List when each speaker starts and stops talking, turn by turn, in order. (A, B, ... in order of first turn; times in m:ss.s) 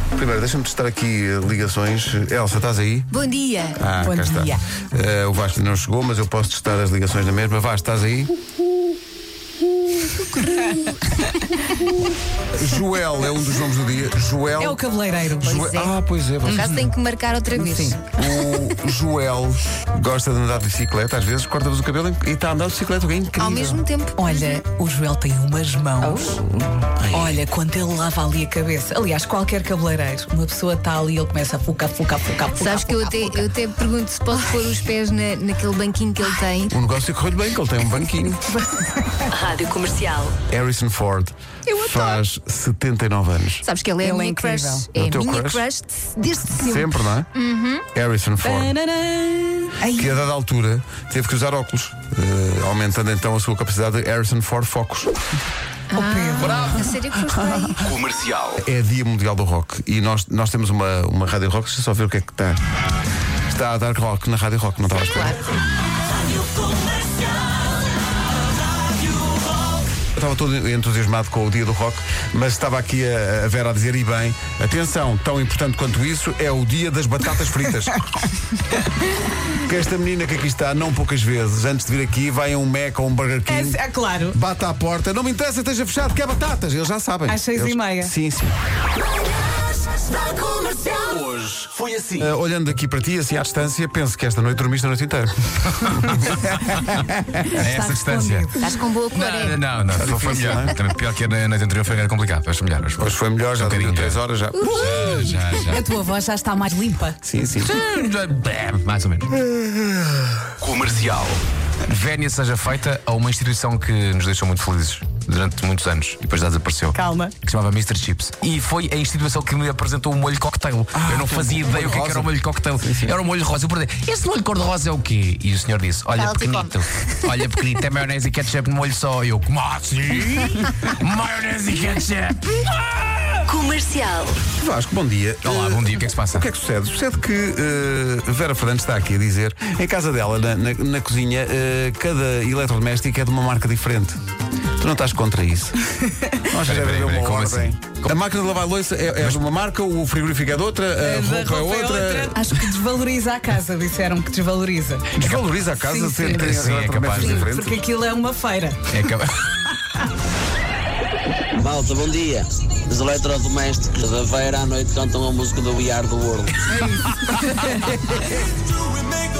0:00.1-0:03.1 A
0:03.1-0:03.8 B
0:03.8-0:08.4 A
0:04.0-0:04.6 C
0:09.9-0:10.7 A
0:10.6-0:10.9 C
0:12.5-0:14.8 A
0:14.6-0:15.9 C
0:15.4-0:16.8 A
0:16.4-0:16.9 C
0:16.4-0:18.0 B
0:17.5-0:18.0 C
0:18.1-0:23.8 A
0:23.4-0:24.6 B
0:24.2-0:26.4 C
0:26.0-0:26.6 B
0:27.1-0:33.5 C
0:32.5-0:36.7 B
0:34.3-0:34.7 C
0:36.7-0:38.4 A
0:38.5-0:39.3 C
0:39.3-0:40.4 D
0:40.5-0:43.6 A
0:41.6-0:42.2 C
0:43.6-0:47.8 B
0:44.0-0:44.9 C
0:44.9-0:45.6 A
0:46.6-0:47.3 A
0:47.9-0:48.8 A
0:48.4-0:50.1 C
0:49.8-0:55.1 A
0:55.9-0:57.9 B
0:55.9-0:56.9 C
0:56.4-0:56.9 E
0:57.8-0:58.6 E
0:58.6-1:02.6 A
1:03.5-1:05.5 A
1:10.1-1:18.0 A
1:19.5-1:23.8 A
1:23.5-1:24.4 C
1:24.3-1:28.5 A
1:27.3-1:28.1 C
1:30.8-1:32.3 E
1:32.2-1:37.5 A
1:35.8-1:44.2 E
1:37.5-1:38.6 C
1:38.6-1:39.7 B
1:39.9-1:40.8 A
1:43.0-1:44.6 A
1:44.6-1:45.3 B
1:44.6-1:47.2 C
1:44.7-1:45.8 E
1:47.2-1:47.8 A
1:47.6-1:49.4 E
1:49.4-1:50.5 A
1:50.6-2:13.2 E
1:56.9-1:57.3 C
2:00.9-2:03.2 A
2:06.2-2:06.8 B
2:13.5-2:14.4 D
2:14.5-2:24.2 A
2:15.4-2:16.5 E
2:24.8-2:25.8 A
2:26.3-2:32.6 A
2:26.6-2:28.2 E
2:31.0-2:35.1 C
2:35.1-2:37.8 A
2:35.8-2:36.6 C
2:36.3-2:37.5 E
2:37.1-2:38.8 C
2:38.9-2:39.5 E
2:41.5-2:46.6 F
2:46.7-2:48.0 C
2:46.9-2:48.0 E